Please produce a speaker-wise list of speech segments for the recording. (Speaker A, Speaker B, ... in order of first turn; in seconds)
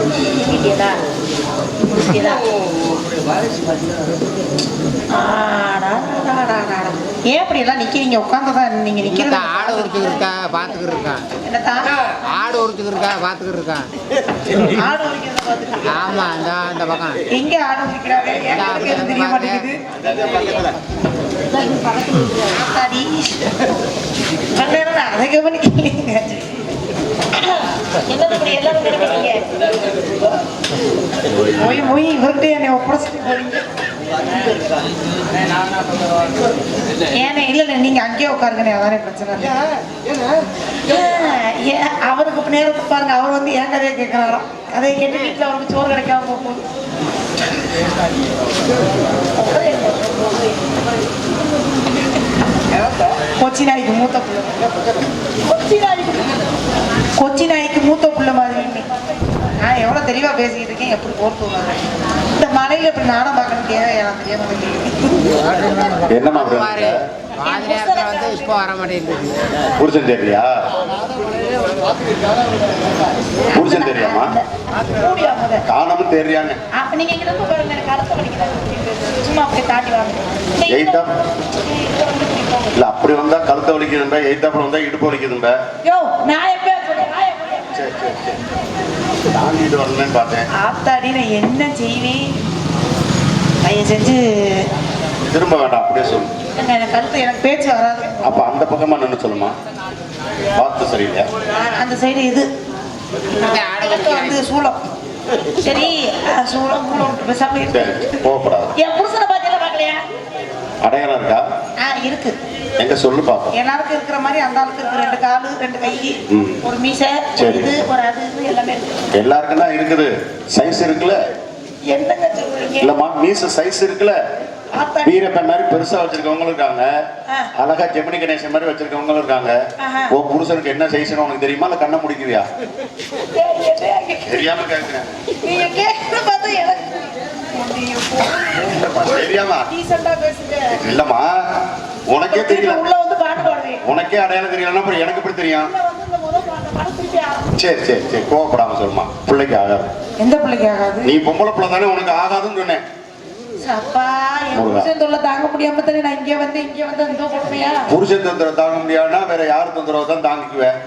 Speaker A: 0.3-1.0, 1.9-2.4, 5.1-10.3, 11.4-11.9, 14.6-16.3, 17.3-19.8, 22.3-23.4, 24.5-26.6, 27.3-29.6, 31.5-33.7, 37.1-39.6, 40.8-46.6, 49.4-50.4, 53.4-54.7, 55.5-56.3, 57.2-58.9, 59.6-65.4, 67.4-68.6, 73.5-75.6, 76.7-82.7, 85.8-87.8, 90.6-92.3, 93.6-94.7, 96.5-98.5, 101.5-102.5, 103.3-104.8, 105.6-108.1, 108.8-110.0, 111.8-112.3, 113.5-119.1, 121.9-122.9, 124.7-125.2, 129.8-130.1, 133.3-134.4, 135.4-140.8, 142.3-143.8, 145.5-147.5, 150.2-151.1, 153.6-157.9
Speaker B: 9.1-11.3, 12.2-13.9, 15.8-17.2, 18.5-19.7, 66.3-69.5, 103.4-104.4
Speaker C: 66.1-67.0, 69.8-70.5, 73.5-74.3, 75.7-76.6, 80.7-81.1, 82.7-85.5, 87.7-88.4, 89.3-90.5, 95.2-96.3, 98.2-99.5, 100.5-101.3, 107.7-108.7, 110.8-111.4, 112.8-113.5, 116.3-116.6, 117.4-117.7, 119.1-121.2, 122.8-124.2, 125.0-126.9, 127.5-129.6, 130.1-132.5, 134.2-135.1, 138.6-139.7, 140.7-141.4, 142.1-142.8, 143.8-145.7, 147.5-149.9, 151.0-152.8, 154.5-154.9, 157.7-160.7